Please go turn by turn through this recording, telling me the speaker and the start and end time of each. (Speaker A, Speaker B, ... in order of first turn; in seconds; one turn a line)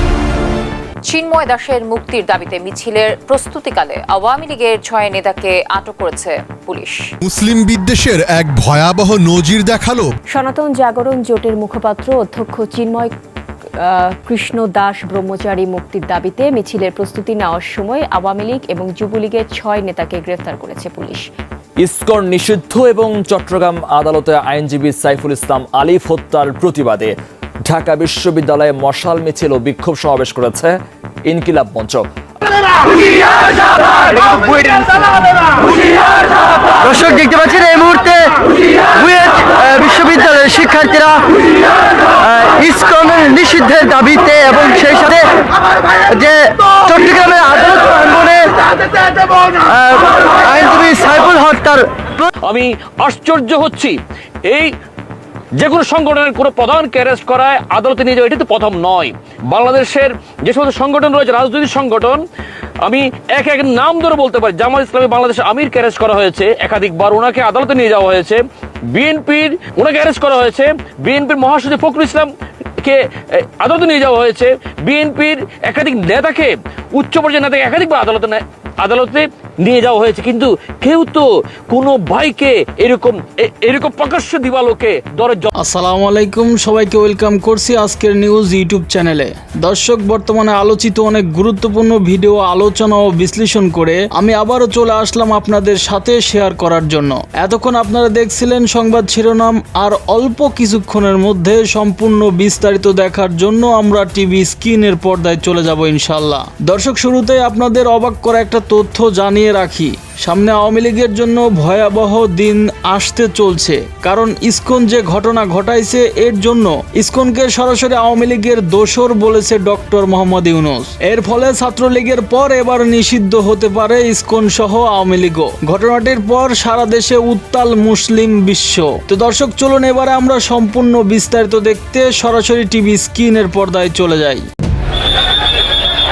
Speaker A: 1.1-7.1
Speaker B: 7.3-10.1
Speaker C: 10.3-13.1
Speaker C: 13.8-21.2
Speaker D: 21.8-32.1
Speaker E: 34.2-35.1
Speaker E: 36.8-38.3
Speaker E: 38.9-41.2
Speaker E: 42.2-45.3
Speaker E: 46.1-48.5
Speaker E: 49.6-51.9
Speaker F: 52.5-54.0
Speaker F: 55.6-62.2
Speaker F: 62.8-68.4
Speaker F: 68.9-72.3
Speaker F: 72.8-85.5
Speaker G: 85.6-134.4